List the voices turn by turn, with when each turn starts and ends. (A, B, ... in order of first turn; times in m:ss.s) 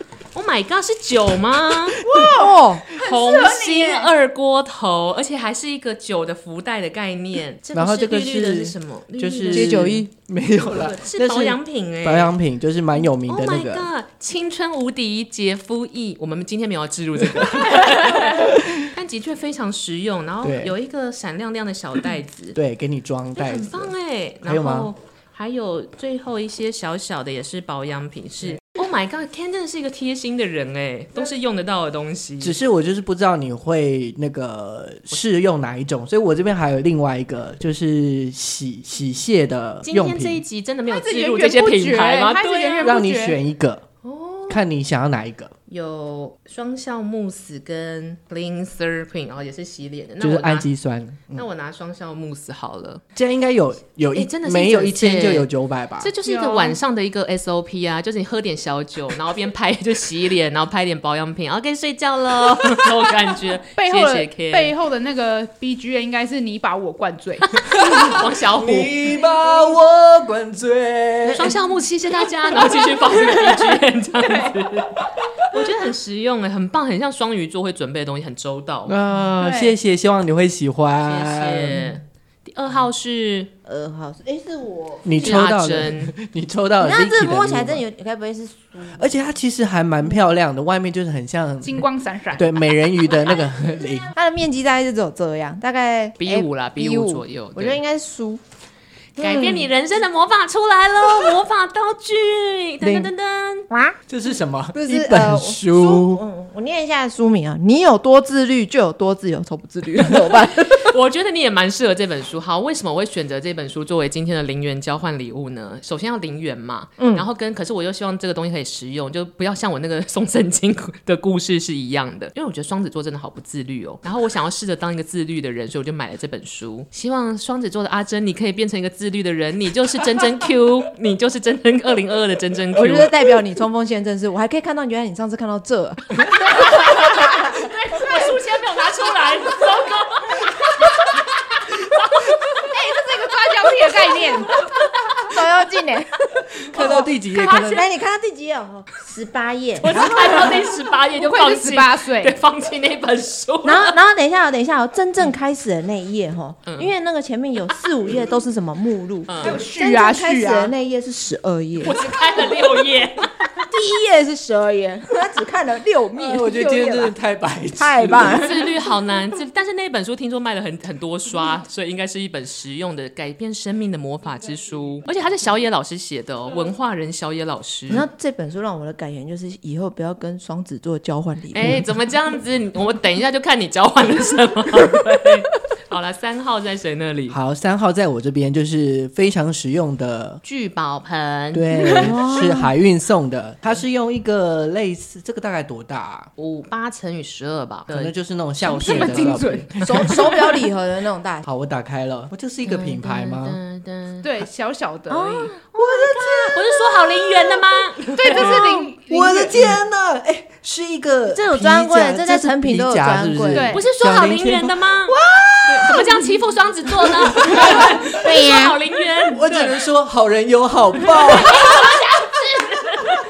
0:00.3-0:02.1 A
0:02.0-0:04.1 B
0:02.2-0:02.8 C
0:02.9-0:10.0 A
0:07.7-0:13.9 D
0:09.5-0:10.1 C
0:10.6-0:12.3 A
0:13.3-0:22.6 A
0:17.4-0:17.7 D
0:18.2-0:18.9 D
0:20.4-0:20.7 D
0:22.6-0:24.9 D
0:23.4-0:32.6 A
0:32.4-0:40.4 D
0:39.8-0:43.0 A
0:40.9-0:43.4 B
0:42.8-0:43.8 D
0:44.0-0:44.6 A
0:44.5-0:45.5 D
0:45.7-0:50.7 A
0:50.2-0:51.4 D
0:51.3-0:53.0 A
0:53.2-0:56.1 D
0:54.1-1:04.7 A
0:56.2-0:56.8 B
1:03.8-1:07.5 B
1:07.5-1:08.9 A
1:07.7-1:11.6 D
1:11.3-1:18.9 A
1:18.9-1:22.0 D
1:19.4-1:19.7 B
1:21.1-1:23.5 A
1:23.6-1:25.4 C
1:25.0-1:27.8 D
1:25.2-1:26.1 A
1:26.8-1:29.1 C
1:29.0-1:34.1 D
1:31.6-1:32.5 B
1:34.1-1:38.4 C
1:36.2-1:37.8 A
1:39.2-1:43.7 A
1:39.2-1:39.7 C
1:42.8-1:43.1 C
1:43.7-1:44.0 C
1:44.1-1:46.2 D
1:44.7-1:50.9 C
1:50.4-2:13.2 A
1:57.0-1:57.3 C
2:12.8-2:17.5 C
2:16.3-2:22.6 A
2:22.7-2:24.6 B
2:25.3-2:30.4 C
2:26.5-2:27.8 D
2:27.3-2:27.7 A
2:29.8-2:34.0 A
2:29.9-2:30.6 B
2:31.2-2:32.4 B
2:33.6-2:42.0 C
2:36.7-2:36.9 A
2:39.3-2:39.6 A
2:39.4-2:40.7 B
2:41.8-2:43.5 A
2:43.7-2:47.2 C
2:46.2-2:48.5 D
2:47.8-2:48.8 C
2:48.2-2:58.0 A
2:57.9-3:01.8 C
3:01.5-3:07.4 A
3:07.3-3:10.4 D
3:10.4-3:12.1 A
3:11.5-3:16.3 D
3:11.9-3:12.7 C
3:16.4-3:18.1 A
3:17.9-3:20.3 D
3:18.6-3:20.5 B
3:18.8-3:19.4 A
3:19.8-3:21.5 C
3:21.4-3:23.6 D
3:22.6-3:24.3 A
3:24.2-3:25.5 B
3:25.1-3:28.9 A
3:25.8-3:26.6 C
3:28.2-3:29.8 B
3:29.1-3:34.8 D
3:31.3-3:33.7 C
3:33.5-3:33.9 B
3:33.7-3:39.8 A
3:35.1-3:36.2 C
3:37.4-3:38.8 C
3:37.4-3:37.9 D
3:39.3-3:41.7 D
3:41.1-3:43.2 A
3:41.8-3:42.0 C